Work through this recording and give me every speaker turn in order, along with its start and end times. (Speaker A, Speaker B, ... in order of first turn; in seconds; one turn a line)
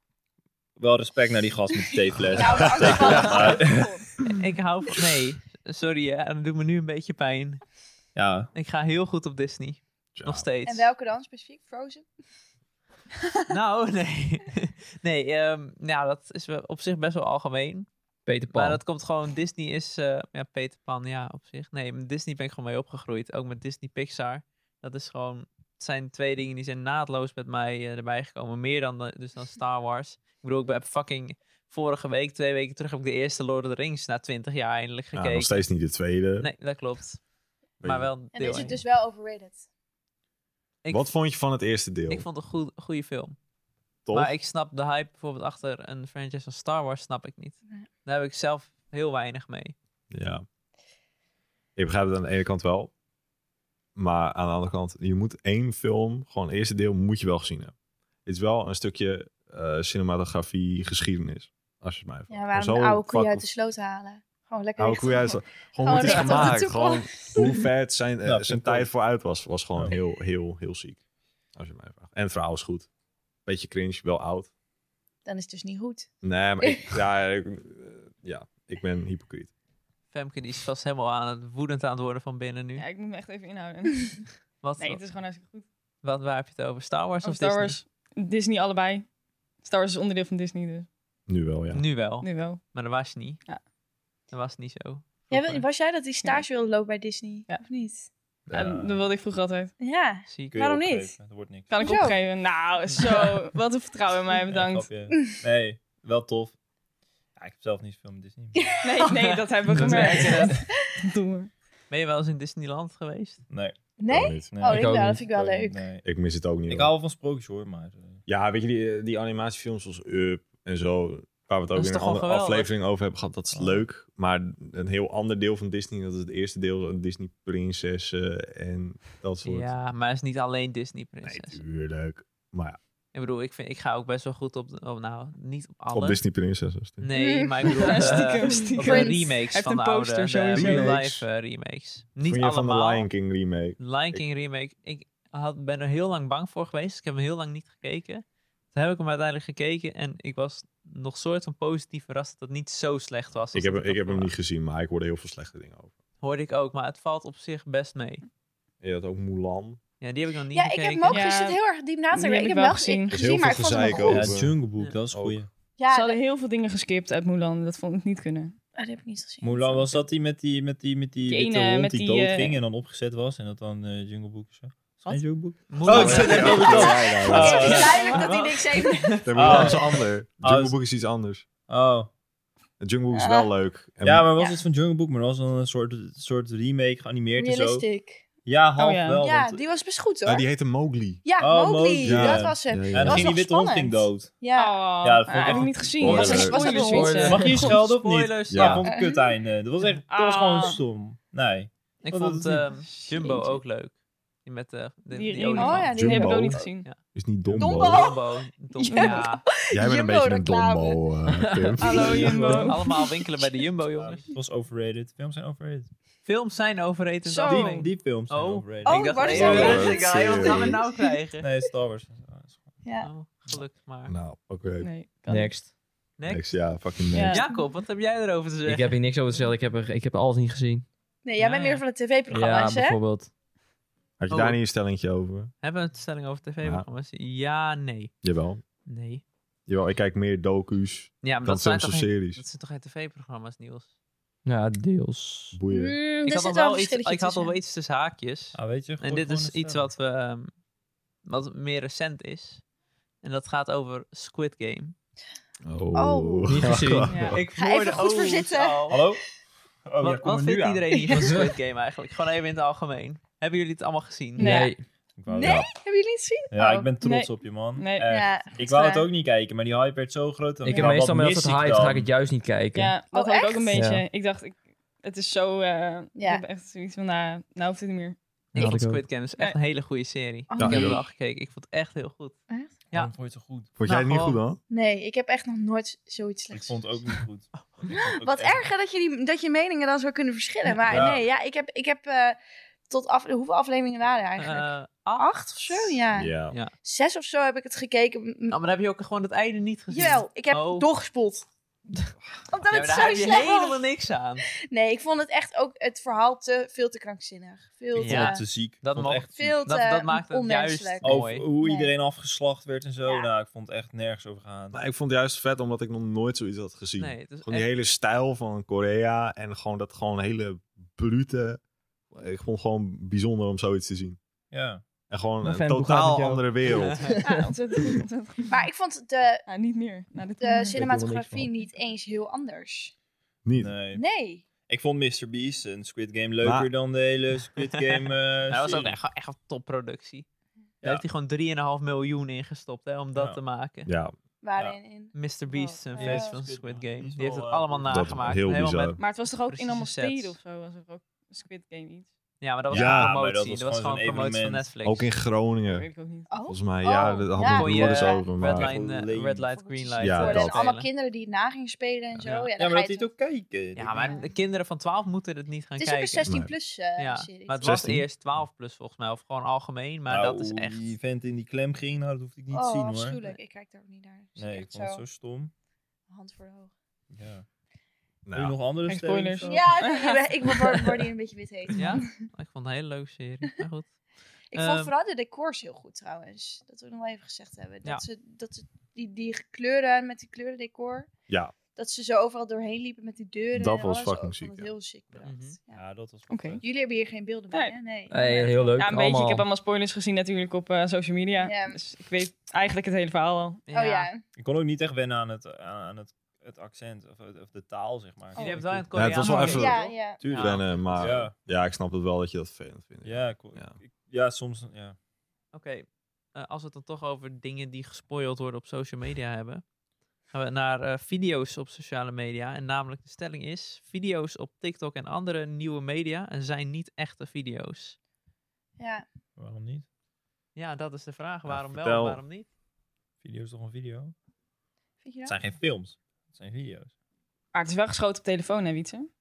Speaker A: 0.8-3.9
Speaker B: 2.3-4.2
Speaker C: 2.5-3.8
Speaker D: 4.3-7.6
Speaker A: 8.2-8.5
Speaker D: 8.5-10.9
Speaker C: 10.1-10.4
Speaker B: 10.6-12.1
Speaker D: 13.5-17.9
Speaker E: 18.2-18.8
Speaker D: 18.5-35.7
Speaker C: 35.1-36.5
Speaker D: 36.4-37.2
Speaker C: 37.8-38.1
Speaker D: 37.8-38.8
Speaker B: 38.3-39.7
Speaker C: 40.9-42.2
Speaker D: 42.1-43.4
Speaker C: 44.0-44.3
Speaker D: 44.1-49.7
Speaker C: 50.1-50.4
Speaker C: 51.8-52.9
Speaker C: 54.0-57.7
Speaker C: 58.2-63.4
Speaker B: 62.3-67.6
Speaker C: 64.8-71.0
Speaker A: 68.2-68.9
Speaker C: 71.5-72.9
Speaker C: 73.5-74.5
Speaker B: 75.2-77.0
Speaker C: 76.2-79.5
Speaker D: 80.1-82.8
Speaker F: 82.8-85.6
Speaker D: 84.6-85.0
Speaker D: 86.0-87.8
Speaker F: 87.2-89.1
Speaker F: 89.6-90.9
Speaker C: 91.3-91.8
Speaker D: 91.7-93.4
Speaker F: 92.2-92.6
Speaker D: 94.3-95.7
Speaker B: 95.3-98.1
Speaker C: 98.5-99.0
Speaker F: 98.5-99.7
Speaker B: 99.8-101.2
Speaker D: 100.3-100.5
Speaker A: 100.5-101.7
Speaker F: 101.7-105.0
Speaker B: 101.8-102.2
Speaker A: 104.5-106.5
Speaker B: 105.1-105.4
Speaker A: 107.3-108.8
Speaker B: 108.6-109.2
Speaker F: 108.8-111.5
Speaker D: 109.7-110.5
Speaker A: 109.7-110.6
Speaker D: 111.9-113.4
Speaker A: 113.5-113.8
Speaker B: 114.0-115.9
Speaker C: 114.1-114.5
Speaker A: 114.5-116.0
Speaker E: 114.7-115.2
Speaker C: 116.0-116.9
Speaker A: 116.7-118.2
Speaker C: 118.3-129.7
Speaker D: 121.7-122.7
Speaker A: 123.5-123.8
Speaker D: 129.4-131.6
Speaker C: 131.2-132.8
Speaker D: 133.1-136.2
Speaker C: 135.9-137.1
Speaker D: 137.0-143.1
Speaker B: 137.1-137.8
Speaker F: 137.7-141.0
Speaker B: 138.7-139.2
Speaker C: 140.6-141.2
Speaker C: 142.2-144.2
Speaker D: 143.8-154.3
Speaker C: 153.5-155.9
Speaker D: 156.2-158.2
Speaker C: 158.8-159.8
Speaker D: 160.0-161.2
Speaker B: 160.5-164.4
Speaker F: 161.1-161.6
Speaker F: 162.1-163.3
Speaker C: 163.1-164.6
Speaker A: 163.9-165.5
Speaker C: 165.1-165.4
Speaker B: 165.8-166.2
Speaker F: 165.9-168.5
Speaker B: 168.7-169.9
Speaker A: 169.4-178.1
Speaker F: 171.2-172.6
Speaker D: 175.0-179.8
Speaker C: 175.8-177.8
Speaker B: 176.3-179.7
Speaker F: 177.9-178.3
Speaker C: 179.2-181.5
Speaker A: 179.3-179.9
Speaker A: 180.4-180.7
Speaker A: 181.7-182.1
Speaker C: 182.8-184.3
Speaker B: 183.1-183.5
Speaker A: 184.0-187.8
Speaker B: 187.3-188.2
Speaker A: 188.4-189.6
Speaker F: 188.8-189.2
Speaker B: 189.2-190.5
Speaker C: 190.2-191.2
Speaker B: 191.2-194.9
Speaker A: 191.4-194.4
Speaker C: 192.0-193.4
Speaker F: 194.5-197.8
Speaker A: 195.0-196.4
Speaker C: 196.0-196.8
Speaker B: 196.0-197.4
Speaker E: 196.6-197.7
Speaker A: 197.2-202.7
Speaker D: 197.6-198.8
Speaker C: 198.5-198.9
Speaker B: 198.8-199.3
Speaker F: 200.1-200.8
Speaker D: 202.0-206.0
Speaker F: 202.8-203.3
Speaker B: 203.2-203.5
Speaker F: 205.1-206.9
Speaker B: 205.6-206.6
Speaker C: 205.9-208.1
Speaker A: 207.4-207.8
Speaker B: 207.6-208.3
Speaker D: 207.8-209.4
Speaker F: 208.8-209.3
Speaker B: 208.9-211.0
Speaker C: 209.7-212.5
Speaker E: 211.4-211.7
Speaker F: 211.8-212.9
Speaker B: 211.8-213.6
Speaker A: 212.2-212.6
Speaker D: 212.4-214.3
Speaker A: 213.9-215.9
Speaker D: 216.2-221.5
Speaker B: 217.3-217.8
Speaker A: 217.5-219.9
Speaker B: 218.8-221.0
Speaker C: 219.2-220.8
Speaker A: 221.4-222.8
Speaker B: 222.8-223.1
Speaker D: 223.0-224.1
Speaker C: 224.1-224.9
Speaker F: 224.8-225.6
Speaker E: 225.3-225.7
Speaker D: 226.2-226.5
Speaker C: 226.3-227.4
Speaker F: 227.1-227.6
Speaker D: 227.3-228.9
Speaker E: 228.7-230.8
Speaker B: 231.2-233.0
Speaker D: 231.4-231.8
Speaker E: 232.3-233.3
Speaker C: 234.2-235.5
Speaker D: 234.3-234.6
Speaker D: 235.6-238.1
Speaker C: 238.2-238.6
Speaker D: 238.8-239.2
Speaker C: 239.7-242.4
Speaker D: 241.2-243.9
Speaker E: 244.4-245.6
Speaker C: 245.5-246.0
Speaker B: 245.7-247.6
Speaker D: 246.2-250.5
Speaker A: 248.5-249.9
Speaker D: 251.2-252.6
Speaker D: 253.2-254.9
Speaker C: 255.6-257.3
Speaker B: 255.9-256.7
Speaker E: 256.5-257.3
Speaker F: 257.0-257.4
Speaker D: 257.3-259.0
Speaker B: 257.6-259.1
Speaker A: 258.9-259.2
Speaker A: 259.8-261.4
Speaker D: 260.0-264.7
Speaker B: 260.9-261.3
Speaker F: 264.4-264.7
Speaker E: 264.4-264.8
Speaker A: 265.1-265.7
Speaker B: 265.3-266.9
Speaker A: 266.5-272.1
Speaker F: 267.0-268.1
Speaker B: 268.1-269.1
Speaker B: 270.6-270.9
Speaker E: 270.7-272.9
Speaker F: 272.7-278.2
Speaker B: 273.1-273.8
Speaker E: 273.7-274.0
Speaker B: 276.1-276.4
Speaker D: 278.5-282.4
Speaker E: 278.5-279.0
Speaker B: 280.5-281.0
Speaker C: 280.6-281.0
Speaker A: 282.9-283.7
Speaker C: 283.8-284.6
Speaker D: 283.9-284.4
Speaker B: 284.7-287.0
Speaker A: 286.5-288.7
Speaker B: 287.9-292.4
Speaker A: 290.9-291.2
Speaker B: 292.9-298.5
Speaker D: 294.4-296.0
Speaker C: 296.1-296.6
Speaker D: 298.5-300.9
Speaker B: 299.9-301.5
Speaker B: 302.5-303.9
Speaker D: 302.7-304.5
Speaker B: 304.5-308.4
Speaker A: 307.9-309.5
Speaker D: 308.0-311.5
Speaker B: 309.4-311.9
Speaker A: 311.0-314.8
Speaker B: 313.0-313.3
Speaker C: 314.7-321.6
Speaker D: 317.0-317.7
Speaker C: 322.1-324.2
Speaker A: 324.5-324.8
Speaker C: 325.1-327.1
Speaker E: 325.4-328.0
Speaker D: 326.7-327.1
Speaker F: 327.2-328.6
Speaker B: 328.5-329.4
Speaker F: 329.5-330.8
Speaker B: 330.4-332.9
Speaker E: 330.7-331.5
Speaker C: 333.4-333.7
Speaker A: 333.5-334.0
Speaker B: 333.9-334.4
Speaker A: 334.6-339.0
Speaker C: 336.4-336.7
Speaker D: 337.6-340.2
Speaker D: 340.8-343.9
Speaker C: 343.9-344.1
Speaker B: 344.4-345.1
Speaker D: 345.1-350.4
Speaker F: 345.7-346.1
Speaker B: 345.9-346.4
Speaker A: 345.9-348.3
Speaker C: 347.9-349.0
Speaker F: 349.0-352.1
Speaker D: 352.4-355.1
Speaker A: 352.7-354.7
Speaker C: 352.7-353.1
Speaker C: 354.8-355.9
Speaker F: 355.7-356.4
Speaker B: 356.3-358.3
Speaker C: 356.4-358.7
Speaker D: 357.5-360.9
Speaker A: 358.4-359.5
Speaker B: 359.5-363.1
Speaker C: 360.0-360.6
Speaker D: 362.2-362.5
Speaker A: 362.6-364.1
Speaker D: 363.8-366.3
Speaker B: 364.0-364.3
Speaker B: 365.8-367.8
Speaker C: 366.2-366.5
Speaker D: 367.0-371.0
Speaker C: 367.6-368.1
Speaker A: 370.1-373.2
Speaker B: 372.5-375.0
Speaker A: 374.4-375.5
Speaker B: 376.1-376.7
Speaker A: 377.1-377.4
Speaker C: 378.2-378.6
Speaker A: 378.3-379.7
Speaker F: 378.9-380.8
Speaker B: 379.4-382.1
Speaker D: 381.7-384.0
Speaker D: 384.5-384.9
Speaker B: 384.5-391.1
Speaker C: 391.3-391.5
Speaker B: 391.7-395.8
Speaker C: 393.5-394.7
Speaker D: 395.2-395.6
Speaker A: 395.7-396.6
Speaker F: 396.3-396.6
Speaker B: 396.6-398.9
Speaker F: 397.5-403.6
Speaker E: 398.1-399.4
Speaker B: 401.4-401.8
Speaker D: 403.7-404.1
Speaker B: 403.7-404.2
Speaker A: 404.4-409.1
Speaker F: 408.4-409.8
Speaker D: 408.4-411.1
Speaker C: 408.9-413.8
Speaker B: 409.5-410.2
Speaker A: 410.2-411.3
Speaker A: 413.0-414.9
Speaker D: 415.5-419.6
Speaker D: 420.3-428.0
Speaker B: 428.8-429.0
Speaker A: 429.4-429.9
Speaker D: 430.5-432.5
Speaker C: 431.5-432.2
Speaker A: 433.2-434.1
Speaker B: 435.0-435.4
Speaker A: 435.2-436.9
Speaker F: 437.5-439.1